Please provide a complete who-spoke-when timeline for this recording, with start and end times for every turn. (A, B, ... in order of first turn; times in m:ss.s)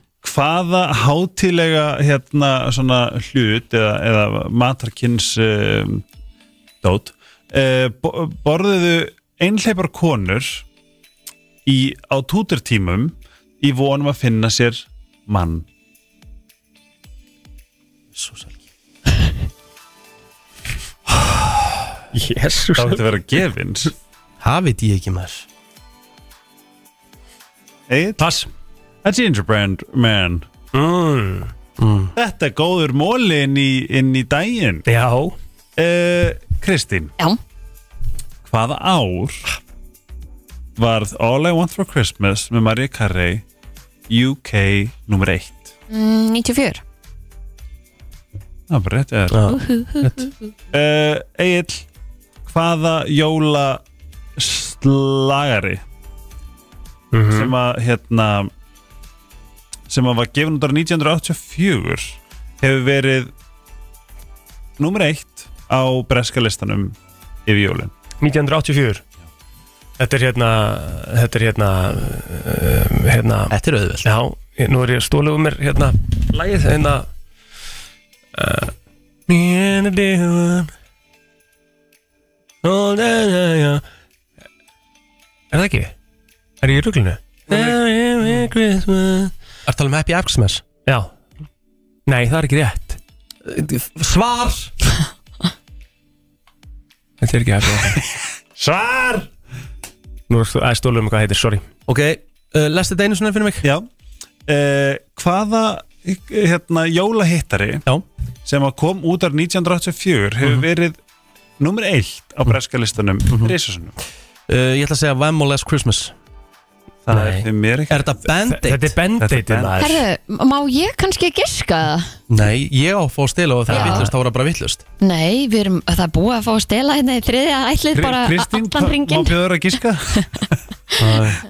0:00.2-0:06.0 A
0:06.8-0:10.6 A
0:11.6-0:15.6 A
0:18.1-0:18.6 B
0:22.1-0:23.1 C
0:22.8-0:23.9 A
0:24.4-0:25.4 B
0:27.9-0:28.2 A
0:28.2-0:28.5 C
0:29.0-0:30.5 A
0:30.7-0:31.5 C
0:31.8-0:32.1 B
0:32.2-0:34.8 A
0:34.9-0:35.4 C
0:35.8-0:37.1 A
0:38.4-0:39.4 A
0:40.8-0:43.4 A
0:44.1-0:45.7 A
0:45.9-0:46.8 D
0:48.7-0:49.4 A
0:49.3-0:50.2 B
0:49.5-0:50.3 D
0:50.7-0:51.8 A
0:52.4-0:53.8 A
0:54.4-0:55.8 A
0:57.1-0:57.5 C
0:57.3-0:58.5 A
0:59.9-1:03.3 A
1:04.8-1:07.9 A
1:08.2-1:09.0 C
1:10.0-1:13.5 C
1:13.5-1:14.1 B
1:14.0-1:17.1 C
1:18.3-1:18.7 C
1:19.3-1:20.7 C
1:22.6-1:23.8 C
1:25.5-1:25.9 C
1:26.6-1:29.3 C
1:27.5-1:28.4 B
1:29.6-1:30.6 B
1:32.1-1:33.0 C
1:33.4-1:34.7 B
1:37.2-1:38.0 C
1:38.6-1:39.2 A
1:40.3-1:41.6 C
1:41.9-1:43.7 B
1:43.6-1:43.9 A
1:44.5-1:47.8 A
1:48.4-1:51.0 A
1:51.6-1:53.9 A
1:53.3-1:53.5 B
1:54.5-1:56.1 B
1:57.1-1:58.1 A
1:57.1-1:57.5 C
1:57.9-1:58.9 B
1:58.5-2:00.0 C
1:59.2-1:59.8 A
1:59.8-2:02.1 D
2:02.3-2:04.8 B
2:03.7-2:04.1 D
2:05.0-2:09.4 D
2:07.9-2:11.4 A
2:10.1-2:10.4 D